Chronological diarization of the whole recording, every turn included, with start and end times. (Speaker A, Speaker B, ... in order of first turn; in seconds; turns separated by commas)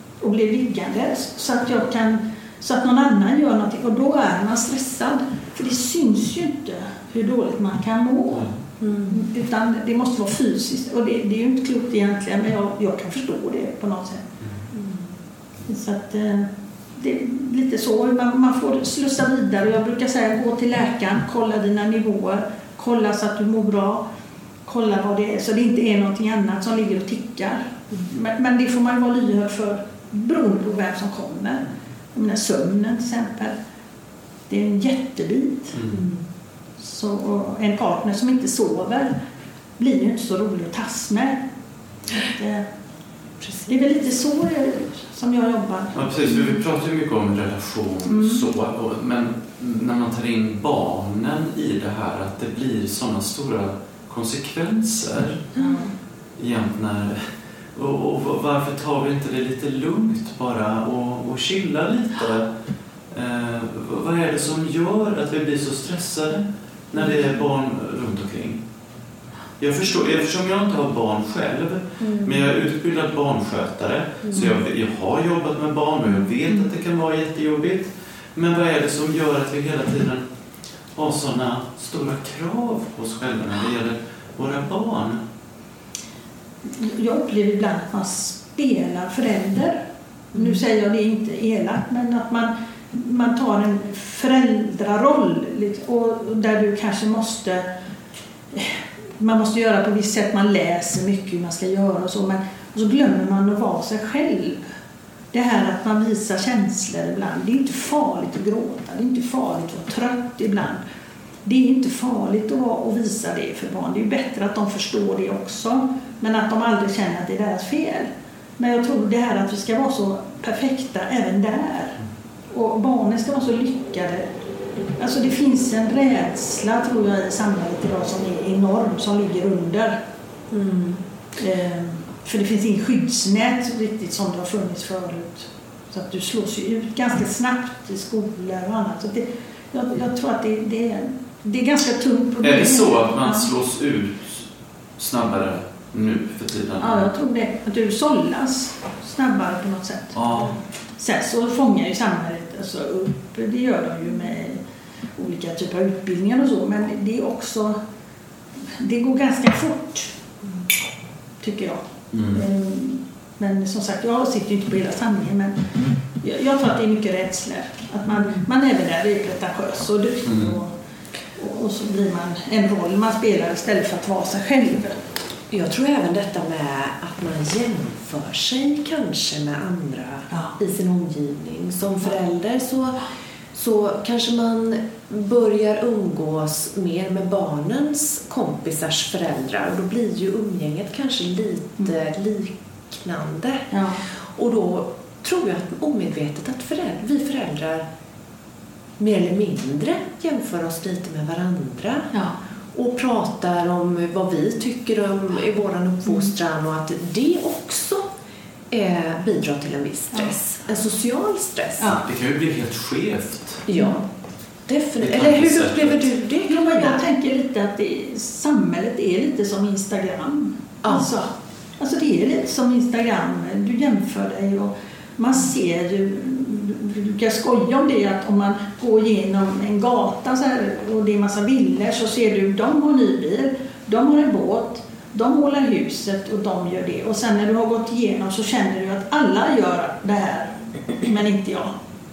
Speaker A: 0.2-8.5, Speaker B: 8.8-9.2, Speaker A: 9.1-14.3, Speaker B: 14.7-15.1, Speaker A: 15.7-24.0, Speaker A: 24.6-33.6, Speaker A: 34.5-35.8, Speaker C: 35.7-36.0, Speaker B: 35.9-36.2, Speaker A: 36.8-39.1, Speaker A: 39.8-41.4, Speaker A: 42.2-42.7, Speaker B: 43.4-43.8, Speaker A: 43.7-46.1, Speaker C: 46.0-55.5, Speaker A: 48.1-48.5, Speaker A: 55.5-55.9, Speaker C: 56.4-57.2, Speaker C: 57.7-62.5, Speaker C: 63.1-68.6, Speaker C: 69.6-80.2, Speaker B: 72.0-72.4, Speaker B: 74.2-74.6, Speaker C: 81.0-85.2, Speaker A: 86.7-89.8, Speaker A: 90.3-97.7, Speaker B: 90.3-90.6, Speaker A: 98.5-104.6, Speaker A: 105.3-110.8, Speaker A: 111.5-122.0, Speaker A: 122.5-124.3, Speaker A: 125.0-130.0, Speaker B: 130.5-131.0, Speaker A: 131.4-143.4, Speaker C: 142.4-147.1, Speaker A: 146.8-150.2, Speaker C: 150.2-150.5, Speaker A: 151.0-154.6, Speaker A: 155.2-157.8, Speaker A: 158.7-160.1, Speaker A: 161.4-165.7, Speaker C: 162.1-162.4, Speaker A: 166.2-170.7, Speaker C: 170.2-170.6, Speaker A: 171.4-175.0, Speaker B: 175.5-183.0, Speaker A: 180.3-180.6, Speaker B: 183.5-197.9, Speaker A: 193.7-194.0, Speaker B: 199.0-202.1, Speaker B: 202.7-208.1, Speaker B: 208.7-212.0, Speaker A: 211.8-212.1, Speaker C: 211.9-213.6, Speaker B: 213.7-214.1, Speaker B: 214.7-217.1, Speaker C: 215.0-216.1, Speaker A: 216.5-241.7